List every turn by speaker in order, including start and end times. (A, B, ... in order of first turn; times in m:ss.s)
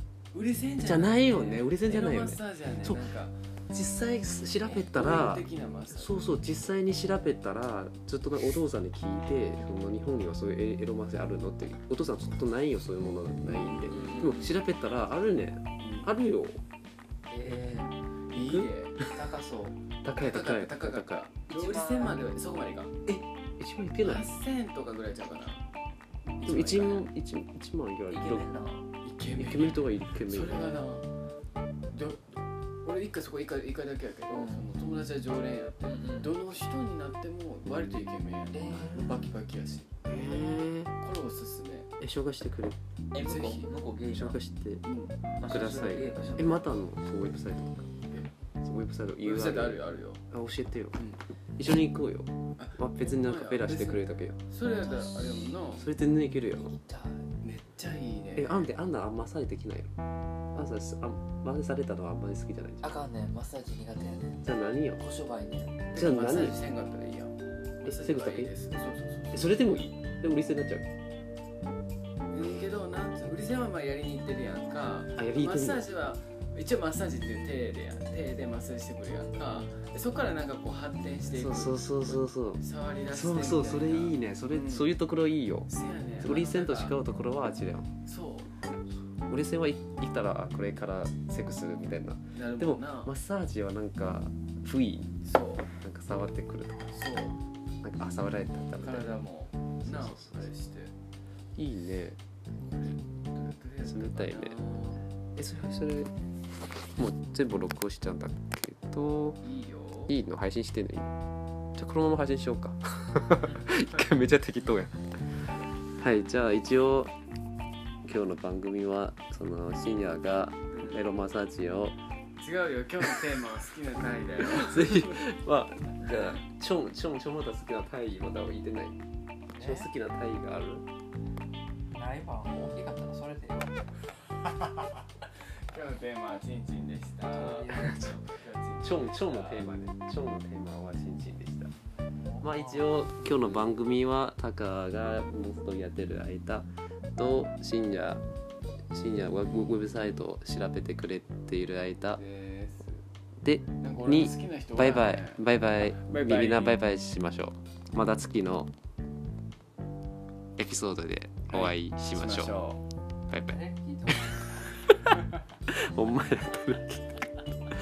0:00.3-0:03.4 A
0:00.8-0:03.1 B
0:03.7-0:16.6 B
0:04.6-0:06.2 A
0:13.4-0:14.3 A
0:13.9-0:14.5 C
0:15.8-0:16.1 A
0:17.3-0:17.9 C
0:18.3-0:19.0 A
0:18.4-0:18.7 B
0:19.0-0:19.8 C
0:20.0-0:21.3 B
0:20.2-0:22.9 A
0:21.5-0:22.3 C
0:23.1-0:24.3 B
0:24.0-0:25.6 A
0:26.4-0:27.1 A
0:26.4-0:28.5 B
0:28.1-0:28.9 C
0:29.0-0:31.1 A
0:29.4-0:30.8 B
0:31.9-0:41.9 A
0:34.3-0:34.7 C
0:35.8-0:36.4 C
0:38.5-0:39.1 C
0:40.1-0:40.9 B
0:42.0-0:42.8 B
0:43.1-0:44.4 C
0:43.2-0:43.7 A
0:44.1-0:44.8 B
0:44.8-0:45.2 A
0:45.4-0:46.7 C
0:45.5-0:47.9 B
0:48.6-0:51.0 B
0:49.2-0:50.2 A
0:51.6-0:54.4 B
0:52.6-0:55.9 A
0:54.8-0:55.5 C
0:55.8-0:56.8 B
0:56.5-0:57.3 C
0:57.4-0:58.7 A
0:58.4-0:59.9 B
1:00.5-1:03.0 B
1:02.8-1:04.4 C
1:04.4-1:05.0 B
1:05.0-1:06.0 C
1:05.9-1:09.9 A
1:05.9-1:06.6 B
1:07.8-1:08.5 B
1:09.3-1:10.9 B
1:12.3-1:24.9 A
1:15.2-1:15.9 B
1:21.4-1:27.9 B
1:25.7-1:27.0 A
1:28.0-1:28.6 A
1:29.2-1:35.1 B
1:32.3-1:33.1 A
1:35.2-1:35.7 A
1:35.8-1:36.9 B
1:36.9-1:37.4 A
1:37.8-1:39.1 B
1:38.8-1:40.9 A
1:39.8-1:40.5 B
1:41.6-1:42.2 B
1:42.6-1:45.1 A
1:43.8-1:44.6 B
1:45.4-1:46.1 B
1:46.8-1:49.4 B
1:49.4-1:50.2 A
1:50.1-1:51.1 B
1:51.8-1:55.2 B
1:56.0-1:57.1 B
1:58.0-2:02.0 B
2:00.7-2:01.0 A
2:02.4-2:05.2 A
2:04.5-2:09.0 B
2:09.5-2:09.9 C
2:09.6-2:10.8 B
2:11.9-2:13.9 C
2:15.7-2:19.7 A
2:17.3-2:18.0 C
2:17.6-2:18.2 B
2:18.8-2:21.7 B
2:22.1-2:23.0 C
2:22.4-2:28.2 B
2:23.2-2:23.8 A
2:28.9-2:32.2 B
2:32.2-2:33.0 A
2:33.4-2:38.7 B
2:33.8-2:35.4 A
2:36.0-2:36.8 A
2:40.6-2:42.6 B
2:41.5-2:42.8 A
2:43.3-2:45.2 B
2:43.5-2:44.7 C
2:45.7-2:47.2 B